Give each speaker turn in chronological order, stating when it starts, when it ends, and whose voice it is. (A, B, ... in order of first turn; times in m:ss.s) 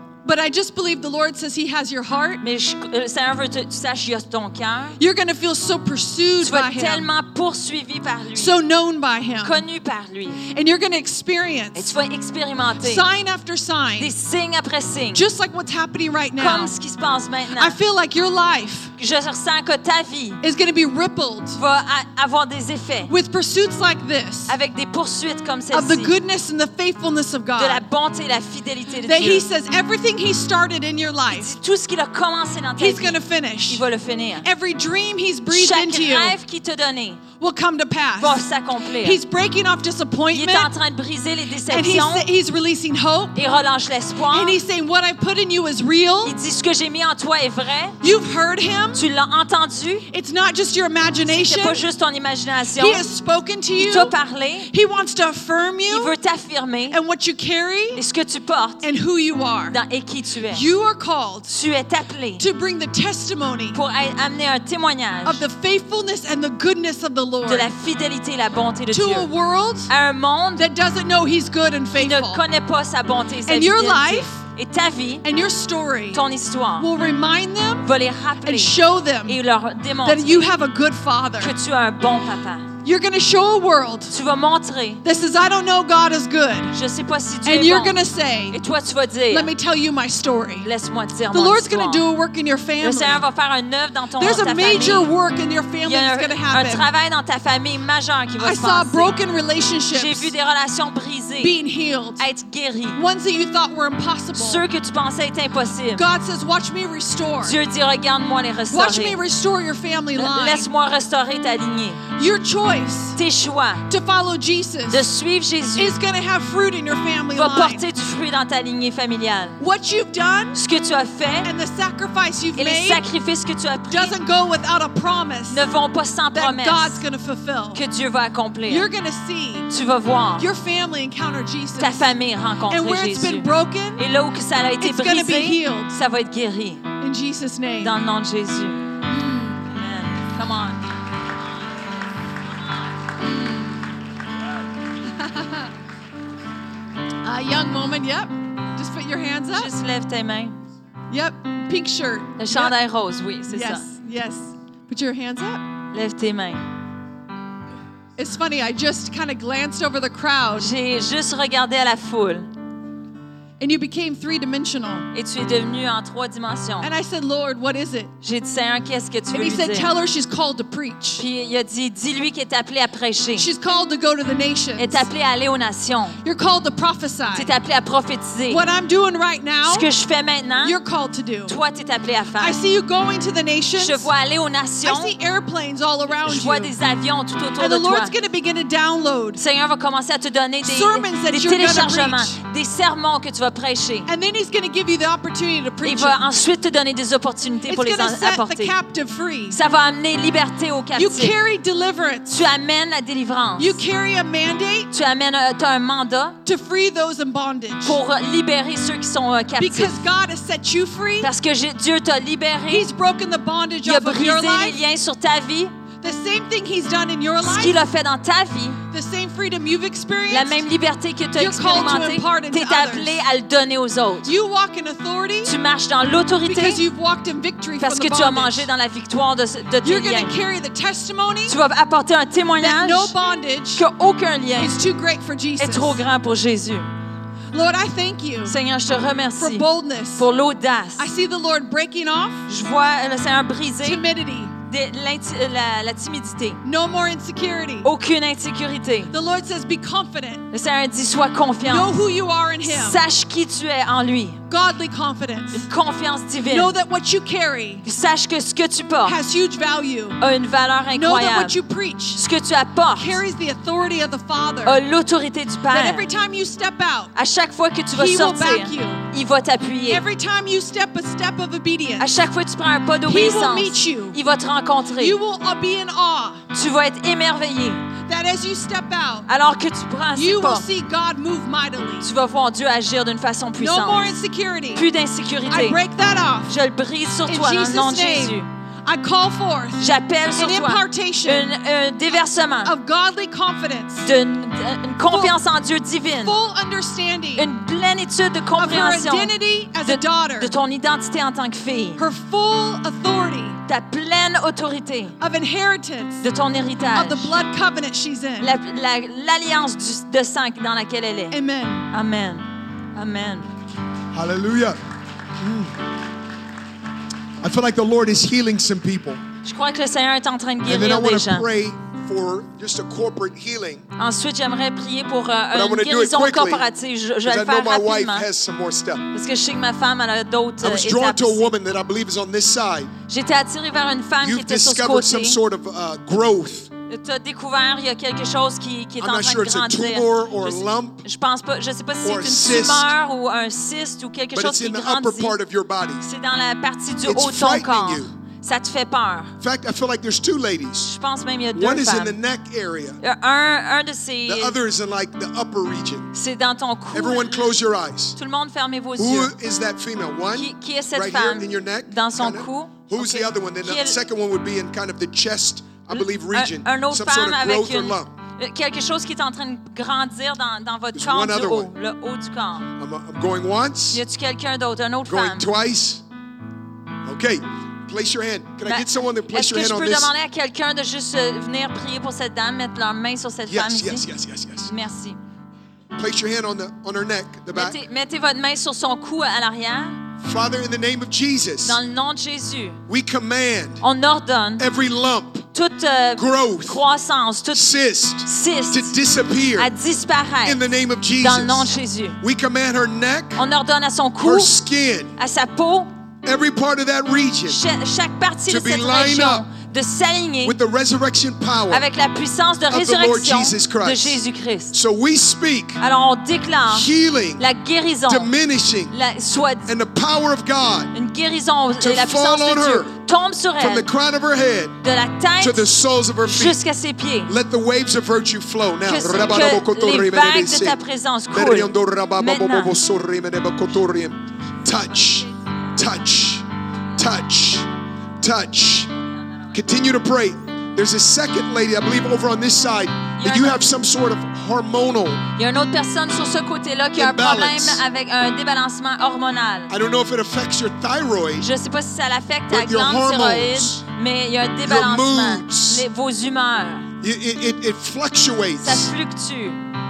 0:00.2-0:02.4 A
0:02.4-0:05.0 B
0:05.0-0:07.1 A
0:06.4-0:08.6 B
0:08.3-0:09.6 A
0:09.4-0:10.4 B
0:10.4-0:11.9 A
0:11.7-0:13.1 B
0:12.8-0:14.1 A
0:14.0-0:15.2 B
0:15.1-0:16.7 A
0:16.4-0:17.8 B
0:17.5-0:18.9 A
0:19.0-0:20.4 B
0:20.4-0:21.6 A
0:21.6-0:23.1 B
0:23.1-0:24.5 A
0:24.5-0:26.1 B
0:25.7-0:27.8 A
0:27.6-0:29.4 B
0:29.0-0:31.6 A
0:31.3-0:34.5 B
0:32.8-0:33.8 A
0:34.4-0:36.3 A
0:35.5-0:37.2 B
0:37.4-0:38.4 A
0:38.2-0:39.2 B
0:39.0-0:40.7 A
0:40.3-0:42.3 B
0:41.7-0:43.4 A
0:43.3-0:44.6 B
0:44.3-0:46.4 A
0:46.2-0:48.0 B
0:48.0-0:49.0 A
0:48.9-0:50.1 B
0:50.1-0:51.8 A
0:51.2-0:53.0 B
0:52.8-0:54.2 A
0:53.8-0:54.7 B
0:54.7-0:56.1 A
0:55.9-0:57.0 B
0:56.9-0:58.0 A
0:57.9-0:58.8 B
0:58.8-0:59.8 A
0:59.7-1:00.6 B
1:00.4-1:01.5 A
1:01.5-1:02.4 B
1:02.4-1:03.8 A
1:03.7-1:05.4 B
1:05.2-1:07.7 A
1:07.4-1:09.3 B
1:08.9-1:09.9 A
1:09.9-1:10.7 B
1:10.6-1:12.4 A
1:11.9-1:15.2 B
1:13.4-1:14.4 A
1:15.2-1:16.2 A
1:16.1-1:16.9 B
1:16.8-1:17.9 A
1:17.8-1:20.5 B
1:18.4-1:19.4 A
1:20.0-1:21.5 A
1:21.4-1:22.7 B
1:22.8-1:24.1 A
1:24.1-1:25.0 B
1:25.0-1:26.8 A
1:26.7-1:28.0 B
1:27.4-1:28.6 A
1:28.5-1:29.5 B
1:29.3-1:30.7 A
1:30.6-1:32.0 B
1:31.3-1:33.2 A
1:32.8-1:35.1 B
1:34.2-1:36.9 A
1:35.8-1:39.1 B
1:38.4-1:40.3 A
1:39.9-1:41.6 B
1:41.4-1:42.2 A
1:42.2-1:43.0 B
1:43.0-1:44.6 A
1:44.3-1:46.0 B
1:45.9-1:47.6 A
1:47.4-1:49.2 B
1:48.7-1:50.7 A
1:50.1-1:52.0 B
1:52.2-1:53.2 A
1:53.1-1:53.8 B
1:53.9-1:55.1 A
1:54.9-1:55.9 B
1:55.8-1:57.8 A
1:57.3-1:59.6 B
1:59.6-2:00.6 A
2:00.5-2:01.5 B
2:01.4-2:03.0 A
2:02.6-2:04.1 B
2:03.9-2:05.6 A
2:05.5-2:07.0 B
2:06.3-2:07.8 A
2:07.7-2:08.9 B
2:08.7-2:09.7 A
2:09.7-2:10.4 B
2:10.4-2:12.1 A
2:11.8-2:16.8 B
2:12.7-2:14.0 A
2:14.8-2:16.0 A
2:17.0-2:18.0 A
2:17.8-2:18.9 B
2:19.1-2:19.6 A
2:19.6-2:20.8 B
2:25.0-2:25.7 A
2:27.2-2:29.7 A
2:29.5-2:30.6 B
2:31.1-2:32.8 A
2:32.4-2:33.9 B
2:33.5-2:35.6 A
2:35.9-2:36.6 B
2:38.2-2:40.7 A
2:40.6-2:42.5 B
2:43.6-2:45.1 A
2:45.1-2:46.9 B
2:46.8-2:48.1 A
2:48.2-2:49.9 B
2:49.3-2:51.2 A
2:51.2-2:53.5 B
2:53.4-2:55.1 A
2:54.8-2:56.2 B
2:56.2-2:57.5 A
2:57.3-2:58.6 B
2:58.5-2:59.9 A
2:59.6-3:00.8 B
3:00.6-3:01.5 A
3:01.4-3:02.6 B
3:02.4-3:04.1 A
3:03.8-3:05.1 B
3:04.8-3:06.7 A
3:06.2-3:08.1 B
3:07.6-3:09.4 A
3:09.4-3:14.1 B
3:10.6-3:12.4 A
3:14.1-3:16.2 A
3:15.8-3:18.7 B
3:17.7-3:19.6 A
3:19.5-3:21.4 B
3:21.0-3:22.4 A
3:22.3-3:23.8 B
3:23.6-3:24.9 A
3:24.9-3:26.4 B
3:26.4-3:28.0 A
3:27.8-3:30.0 B
3:29.6-3:31.3 A
3:31.2-3:32.9 B
3:32.7-3:34.8 A
3:33.8-3:35.7 B
3:36.0-3:37.8 A
3:37.4-3:38.8 B
3:38.9-3:40.6 A
3:40.3-3:44.3 B
3:41.4-3:43.1 A
3:44.2-3:45.5 A
3:45.4-3:46.8 B
3:46.4-3:48.7 A
3:47.8-3:50.3 B
3:49.8-3:51.6 A
3:51.5-3:53.1 B
3:52.6-3:53.8 A
3:53.7-3:54.7 B
3:54.6-3:56.0 A
3:55.6-3:56.9 B
3:57.5-3:58.5 A
3:58.4-4:01.0 B
3:59.4-4:00.3 A
4:01.0-4:02.4 A
4:02.5-4:04.0 B
4:03.8-4:04.5 A
4:04.6-4:06.6 B
4:06.6-4:07.9 A
4:07.8-4:09.1 B
4:09.1-4:10.4 A
4:10.5-4:11.9 B
4:11.6-4:13.0 A
4:12.6-4:14.4 B
4:14.5-4:15.7 A
4:15.5-4:16.7 B
4:16.4-4:17.8 A
4:17.8-4:19.2 B
4:19.0-4:20.2 A
4:20.2-4:21.6 B
4:20.9-4:22.2 A
4:22.1-4:23.2 B
4:23.0-4:24.8 A
4:24.6-4:26.1 B
4:25.7-4:27.1 A
4:27.1-4:30.0 B
4:27.9-4:29.0 A
4:29.8-4:32.1 A
4:32.0-4:35.2 B
4:33.0-4:34.2 A
4:35.0-4:36.4 A
4:36.5-4:37.8 B
4:38.0-4:39.3 A
4:39.3-4:40.6 B
4:40.1-4:42.1 A
4:42.0-4:44.1 B
4:43.6-4:44.8 A
4:44.7-4:45.8 B
4:45.5-4:46.5 A
4:46.5-4:48.5 B
4:47.3-4:51.5 A
4:49.8-4:52.7 B
4:52.6-4:54.1 A
4:54.0-4:56.3 B
4:55.1-4:55.4 A
4:56.2-4:57.5 A
4:57.4-5:02.0 B
4:58.6-5:00.5 A
5:02.0-5:03.6 A
5:03.7-5:05.1 B
5:05.2-5:06.3 A
5:06.2-5:07.3 B
5:06.9-5:08.5 A
5:08.4-5:11.4 B
5:11.3-5:11.8 A
5:11.9-5:13.5 B
5:14.1-5:14.8 C
5:15.4-5:15.8 C
5:17.4-5:19.2 C
5:19.4-5:21.5 B
5:20.6-5:23.8 C
5:24.0-5:28.3 B
5:25.5-5:26.7 C
5:27.2-5:29.1 C
5:29.1-5:31.4 B
5:30.6-5:32.9 C
5:33.1-5:35.4 B
5:34.2-5:36.7 C
5:36.9-5:45.4 B
5:39.0-5:41.0 C
5:42.0-5:42.9 C
5:44.3-5:46.0 C
5:46.0-5:49.3 B
5:47.0-5:48.1 C
5:49.4-5:50.9 C
5:50.8-5:52.2 B
5:51.5-5:53.0 C
5:53.0-5:54.6 B
5:54.2-5:56.1 C
5:56.1-5:57.6 B
5:56.9-5:58.2 C
5:58.2-5:59.4 B
5:59.0-6:08.1 C
6:00.3-6:04.0 B
6:05.9-6:12.7 B
6:10.9-6:11.7 C
6:12.8-6:14.0 C
6:13.9-6:15.5 B
6:15.0-6:16.0 C
6:17.0-6:20.1 C
6:18.6-6:24.0 B
6:23.5-6:24.7 C
6:24.6-6:25.2 B
6:25.9-6:27.8 C
6:27.5-6:30.0 B
6:30.2-6:31.8 C
6:31.6-6:32.8 B
6:32.9-6:33.8 C
6:33.8-6:34.6 B
6:34.6-6:35.5 C
6:35.5-6:37.7 B
6:36.2-6:36.8 C
6:37.5-6:39.7 C
6:38.2-6:39.0 B
6:39.6-6:42.2 B
6:40.4-6:41.7 C
6:42.2-6:43.4 C
6:43.4-6:44.5 B
6:44.2-6:45.1 C
6:45.2-6:45.9 B
6:46.2-6:47.6 C
6:47.5-6:50.6 B
6:48.5-6:49.5 C
6:50.4-6:51.8 C
6:51.7-6:54.7 B
6:52.7-6:55.8 C
6:55.8-6:58.3 B
6:56.7-6:57.4 C
6:58.1-6:59.0 C
6:58.9-6:59.7 B
6:59.7-7:00.9 C
7:00.9-7:03.9 B
7:01.8-7:03.0 C
7:03.6-7:04.8 C
7:04.8-7:05.7 B
7:05.4-7:06.6 C
7:06.2-7:07.3 B
7:07.3-7:10.8 C
7:08.8-7:12.8 B
7:11.3-7:16.4 C
7:14.8-7:15.9 B
7:17.0-7:17.7 C
7:18.2-7:18.9 C
7:19.0-7:19.5 B
7:19.5-7:25.2 C
7:23.2-7:23.6 B
7:25.4-7:29.7 B
7:26.9-7:27.8 C
7:29.7-7:31.5 C
7:31.4-7:36.9 B
7:32.5-7:33.8 C
7:34.6-7:35.8 C
7:37.0-7:38.9 C
7:38.6-7:39.6 B